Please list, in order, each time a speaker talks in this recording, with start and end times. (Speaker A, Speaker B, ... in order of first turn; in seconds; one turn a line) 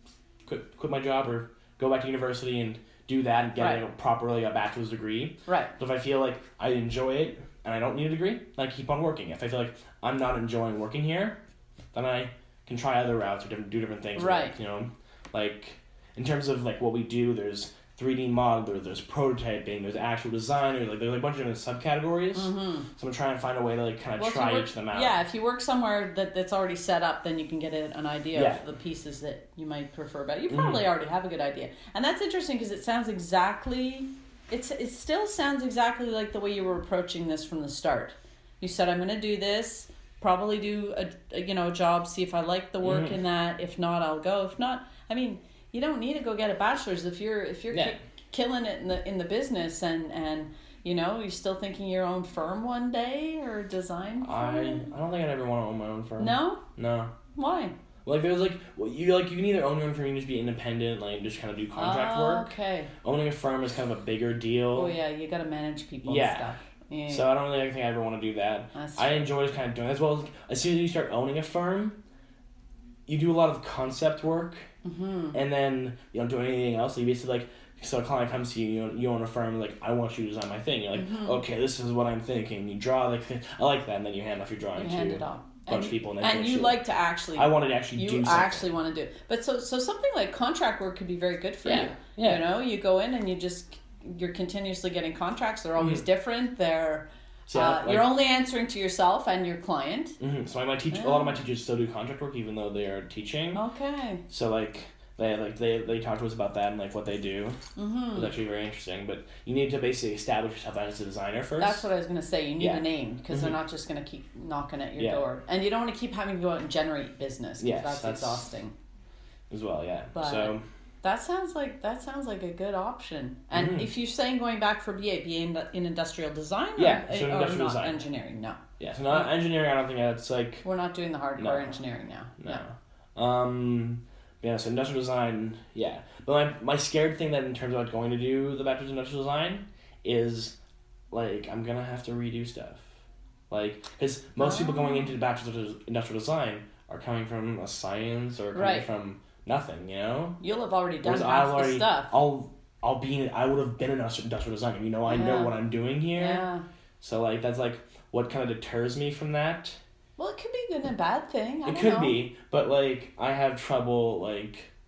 Speaker A: 0.5-11.4
Speaker B: 5.5-5.7
Speaker A: 11.9-25.2
Speaker B: 14.2-14.6
Speaker B: 22.4-22.9
Speaker B: 24.2-54.9
Speaker A: 28.3-28.6
Speaker A: 30.5-30.9
Speaker A: 42.8-43.2
Speaker A: 54.2-57.1
Speaker B: 56.2-56.6
Speaker B: 57.3-57.7
Speaker A: 58.0-62.5
Speaker B: 61.8-62.9
Speaker A: 63.0-65.0
Speaker B: 64.7-67.3
Speaker A: 66.0-66.5
Speaker A: 67.1-72.0
Speaker B: 68.7-69.3
Speaker A: 73.1-74.7
Speaker B: 74.8-75.4
Speaker A: 75.3-86.8
Speaker B: 80.9-81.4
Speaker B: 84.8-100.2
Speaker A: 87.3-88.7
Speaker A: 91.6-92.5
Speaker A: 95.8-96.0
Speaker A: 97.5-98.1
Speaker A: 100.2-103.6
Speaker B: 100.9-101.4
Speaker B: 103.5-104.2
Speaker A: 104.3-107.6
Speaker B: 107.8-108.3
Speaker A: 108.1-111.8
Speaker B: 111.6-118.7
Speaker A: 112.6-113.6
Speaker A: 115.0-115.2
Speaker A: 117.6-118.4
Speaker A: 119.5-120.6
Speaker B: 120.2-129.3
Speaker A: 123.5-123.9
Speaker A: 126.8-128.0
Speaker A: 128.8-130.7
Speaker B: 130.6-132.6
Speaker A: 131.4-131.8
Speaker A: 132.4-140.6
Speaker A: 141.1-142.9
Speaker A: 143.5-150.4
Speaker B: 144.4-145.1
Speaker B: 148.5-148.9
Speaker B: 150.4-152.1
Speaker A: 151.0-156.4
Speaker B: 155.1-155.6
Speaker B: 156.1-156.7
Speaker A: 157.0-159.8
Speaker B: 160.2-162.2
Speaker A: 161.7-164.7